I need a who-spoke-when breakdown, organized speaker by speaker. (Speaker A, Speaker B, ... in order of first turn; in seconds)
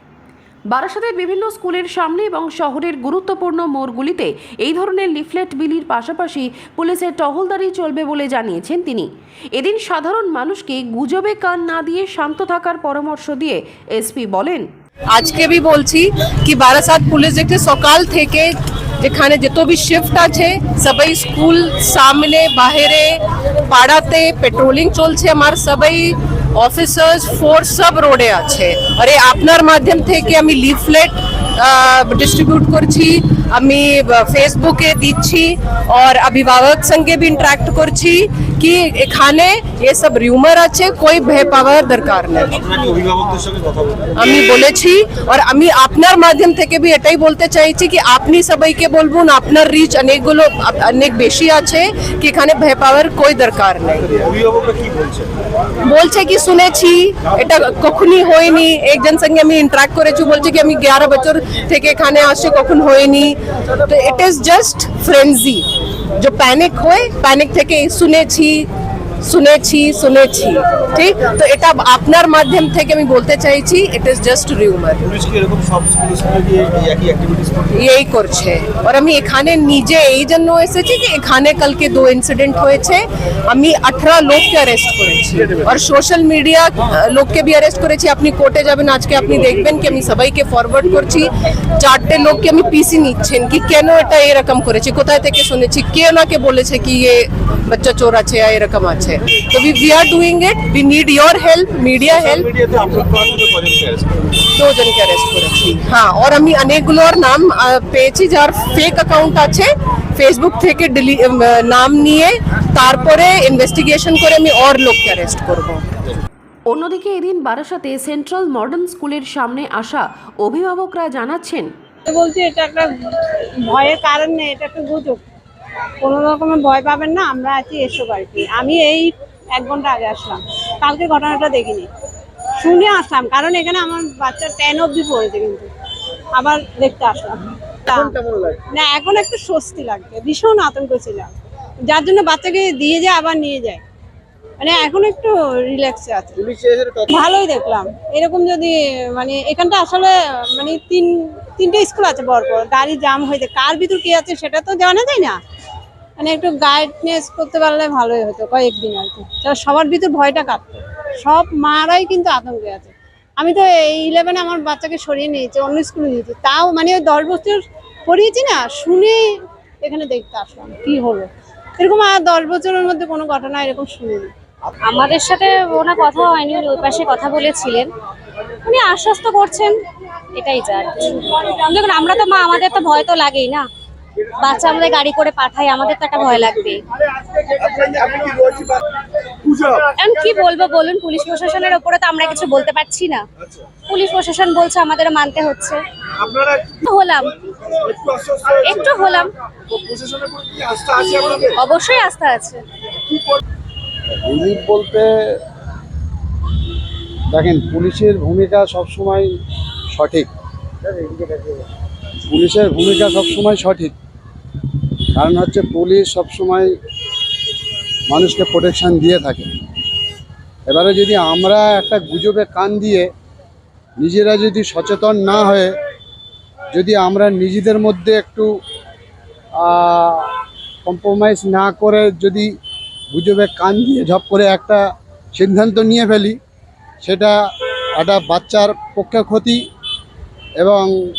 Speaker A: 0.7-14.7, 116.7-121.7
Speaker B: 15.1-42.6, 44.1-54.2, 55.9-65.6, 66.2-68.7, 69.2-75.1, 77.7-102.5, 104.5-115.8
Speaker C: 42.5-44.1, 54.1-55.3, 75.1-77.7, 102.1-104.3, 138.1-138.6, 146.6-147.0, 187.7-188.7, 189.5-189.8, 198.1-198.5, 199.8-201.1
Speaker D: 122.0-122.9, 123.6-125.2, 126.0-131.9, 132.6-135.7, 136.4-138.2, 138.7-141.3, 141.9-143.8, 144.6-146.4, 147.1-155.4, 156.2-169.2, 169.8-174.3
Speaker E: 174.9-177.8, 178.7-179.7, 180.4-183.6, 184.4-186.8, 190.0-193.2, 193.9-195.8, 196.9-197.2, 198.6-199.2, 200.9-202.6
Speaker F: 204.2-205.4, 207.3-209.3, 209.9-210.3, 211.0-211.5, 212.3-213.9, 215.1-216.7, 218.1-219.5, 220.7-223.1, 224.0-225.7, 226.7-228.5, 229.6-230.3, 230.8-232.5, 233.1-236.4, 237.0-237.4, 238.0-239.6, 240.6-240.9